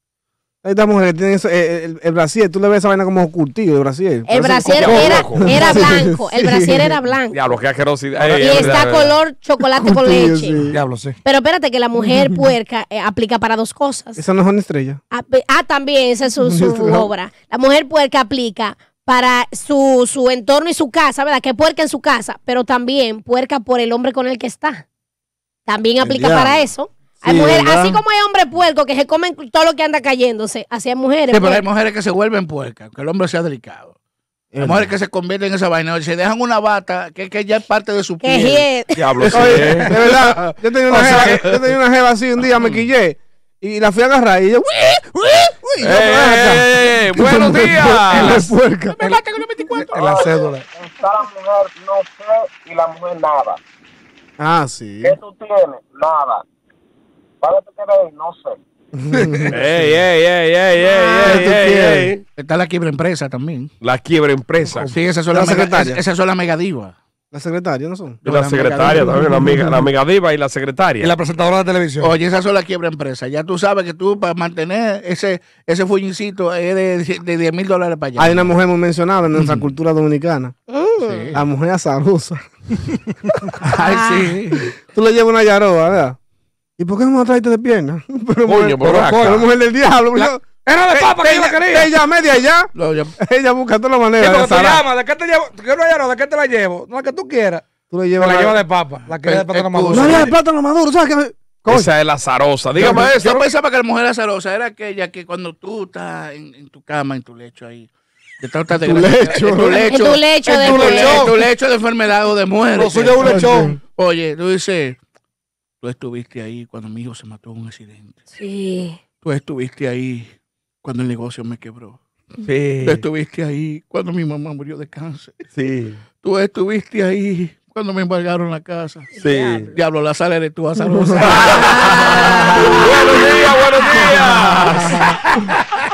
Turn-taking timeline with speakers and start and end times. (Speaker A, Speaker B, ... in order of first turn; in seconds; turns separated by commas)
Speaker A: 0.6-7.0, Speaker B: 4.3-7.3, Speaker C: 4.8-5.8, Speaker C: 7.3-9.1, Speaker D: 8.2-8.8, Speaker B: 8.4-10.6, Speaker A: 9.6-10.8, Speaker D: 10.7-11.2, Speaker B: 11.2-14.2, Speaker A: 12.1-12.4, Speaker A: 14.2-15.0, Speaker B: 15.1-24.8, Speaker A: 16.4-17.1, Speaker B: 25.6-31.6, Speaker A: 26.0-26.7, Speaker A: 27.2-28.0, Speaker E: 31.3-33.9, Speaker A: 34.5-34.9, Speaker E: 34.6-39.6, Speaker B: 38.2-38.9, Speaker C: 39.0-39.9, Speaker A: 39.3-49.1, Speaker E: 40.1-40.5, Speaker D: 40.9-41.4, Speaker C: 45.8-48.5, Speaker D: 48.1-48.5, Speaker E: 49.0-50.5, Speaker D: 49.8-50.6, Speaker F: 49.9-53.6, Speaker A: 54.4-55.2, Speaker F: 55.0-56.4, Speaker F: 57.4-58.6, Speaker A: 59.1-59.6, Speaker C: 59.5-62.2, Speaker A: 61.1-62.1, Speaker E: 62.4-63.7, Speaker C: 63.8-64.9, Speaker E: 64.9-66.9, Speaker A: 65.3-66.0, Speaker A: 67.3-68.2, Speaker E: 68.2-69.2, Speaker C: 68.2-71.1, Speaker A: 69.3-69.7, Speaker D: 71.0-72.1, Speaker E: 72.0-78.5, Speaker A: 78.2-80.5, Speaker B: 80.7-81.3, Speaker E: 81.0-81.3, Speaker A: 81.3-82.4, Speaker E: 83.7-84.7, Speaker B: 83.8-84.2, Speaker A: 84.8-86.2, Speaker A: 86.8-94.8, Speaker C: 88.4-89.4, Speaker D: 89.0-89.4, Speaker D: 90.1-91.9, Speaker E: 92.7-93.1, Speaker D: 94.2-97.7, Speaker A: 97.9-98.6, Speaker D: 98.2-100.3, Speaker E: 99.2-100.3, Speaker A: 99.9-101.9, Speaker C: 101.7-103.4, Speaker E: 102.7-107.9, Speaker E: 108.4-115.0, Speaker A: 108.7-109.8, Speaker B: 109.9-111.3, Speaker D: 110.4-111.3, Speaker D: 112.8-113.8, Speaker A: 113.2-113.8, Speaker E: 115.8-118.2, Speaker B: 118.3-119.0, Speaker E: 119.2-120.3, Speaker E: 120.8-122.0, Speaker C: 122.4-123.0, Speaker E: 122.8-125.4, Speaker C: 125.5-126.0, Speaker E: 126.2-129.1, Speaker B: 129.2-129.7, Speaker C: 129.2-129.7, Speaker E: 129.7-132.3, Speaker C: 131.2-135.1, Speaker B: 131.5-132.9, Speaker A: 133.9-135.0